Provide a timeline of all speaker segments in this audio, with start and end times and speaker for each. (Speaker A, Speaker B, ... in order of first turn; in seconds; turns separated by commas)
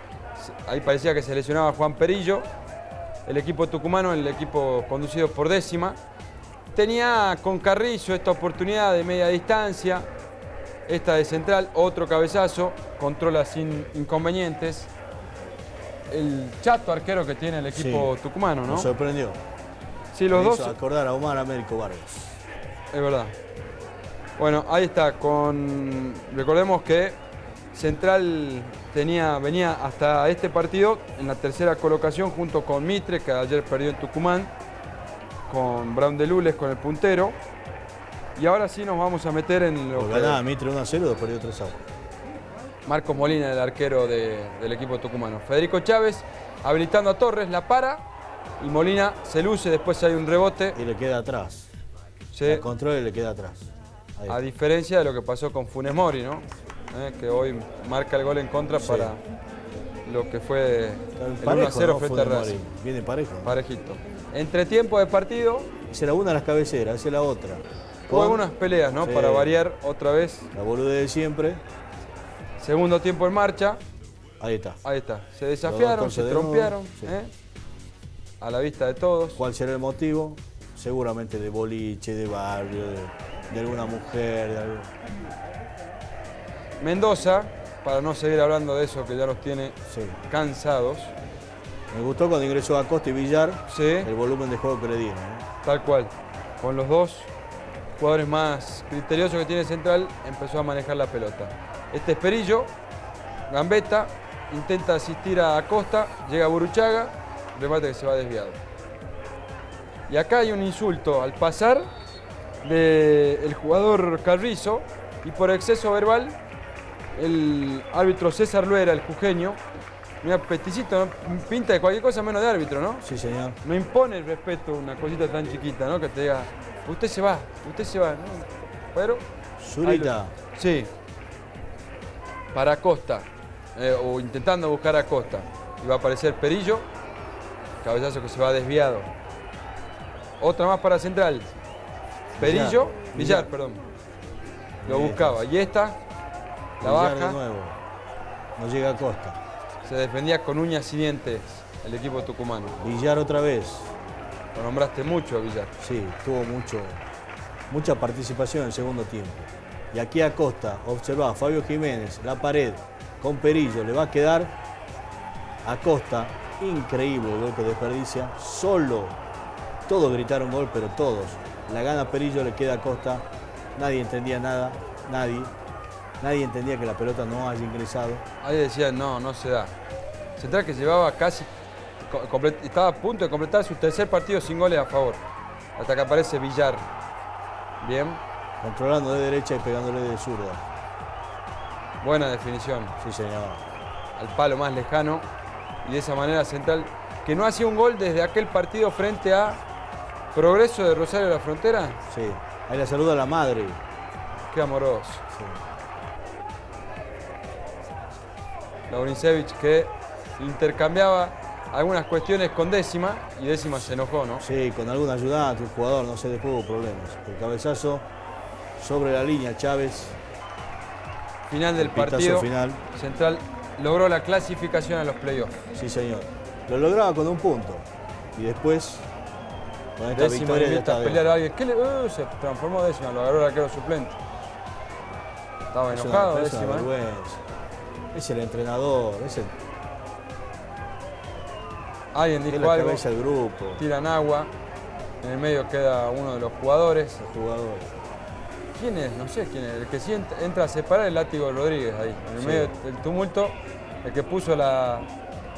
Speaker A: 0.4-2.5, Speaker A: 3.2-6.0, Speaker A: 6.7-10.1, Speaker A: 10.9-14.9, Speaker A: 16.1-18.9, Speaker B: 17.7-18.1, Speaker B: 18.6-19.4, Speaker A: 20.1-20.8, Speaker B: 20.3-22.4, Speaker A: 22.9-23.3, Speaker A: 24.4-27.2, Speaker A: 27.7-34.5, Speaker A: 35.5-37.4, Speaker A: 38.4-40.4, Speaker B: 39.9-41.8, Speaker A: 42.9-48.0, Speaker A: 48.6-50.8, Speaker B: 50.8-51.7, Speaker A: 52.3-52.6, Speaker B: 52.4-54.5, Speaker A: 54.3-59.2, Speaker B: 58.8-59.1, Speaker A: 60.0-62.6, Speaker B: 61.2-63.6, Speaker A: 63.4-65.7, Speaker B: 65.9-68.5, Speaker A: 68.1-70.5, Speaker B: 69.0-69.5, Speaker B: 70.5-71.6, Speaker A: 72.6-73.8, Speaker B: 74.4-74.8, Speaker A: 74.8-77.3, Speaker B: 75.6-77.2, Speaker A: 78.4-79.4, Speaker B: 79.3-84.9, Speaker A: 86.8-91.1, Speaker B: 89.9-90.2, Speaker B: 91.9-95.5, Speaker A: 93.7-94.1, Speaker A: 95.6-97.3, Speaker A: 98.0-102.7, Speaker A: 103.5-108.6, Speaker A: 110.1-111.9, Speaker A: 112.6-116.4, Speaker A: 117.2-119.6, Speaker A: 120.2-123.0, Speaker B: 123.0-123.6, Speaker A: 123.6-129.2, Speaker B: 129.6-130.3, Speaker A: 129.8-130.9, Speaker A: 132.5-136.9, Speaker A: 137.8-139.1, Speaker A: 140.4-141.5, Speaker B: 142.4-143.5, Speaker A: 142.4-143.8, Speaker B: 144.8-145.4, Speaker A: 144.8-146.0, Speaker B: 146.8-147.8, Speaker A: 146.8-147.4, Speaker B: 148.6-149.4, Speaker A: 149.8-152.8, Speaker B: 152.8-153.9, Speaker A: 154.5-155.7, Speaker B: 155.8-157.0, Speaker B: 157.7-164.5, Speaker B: 165.6-169.2, Speaker B: 169.9-173.2, Speaker B: 173.8-175.5, Speaker B: 176.2-178.2, Speaker A: 178.4-179.7, Speaker A: 180.4-181.5, Speaker A: 182.0-185.2, Speaker A: 185.8-186.8, Speaker A: 187.8-188.2, Speaker B: 188.6-190.6, Speaker A: 192.0-192.9, Speaker B: 193.0-193.6, Speaker A: 194.2-195.2, Speaker A: 195.8-199.6, Speaker A: 200.3-202.0, Speaker B: 202.1-203.8, Speaker A: 204.4-205.2, Speaker B: 205.3-205.6, Speaker A: 208.9-214.4, Speaker B: 214.4-218.1, Speaker B: 218.8-220.2, Speaker A: 221.5-225.6, Speaker B: 221.8-222.8, Speaker B: 225.7-229.1, Speaker B: 230.0-231.3, Speaker A: 230.1-234.2, Speaker A: 235.7-236.9, Speaker B: 235.9-237.4, Speaker B: 238.1-239.5, Speaker A: 242.1-243.0, Speaker B: 242.5-243.8, Speaker A: 243.8-244.5, Speaker A: 245.2-247.2, Speaker B: 247.2-247.9, Speaker A: 248.7-255.1, Speaker B: 252.4-252.7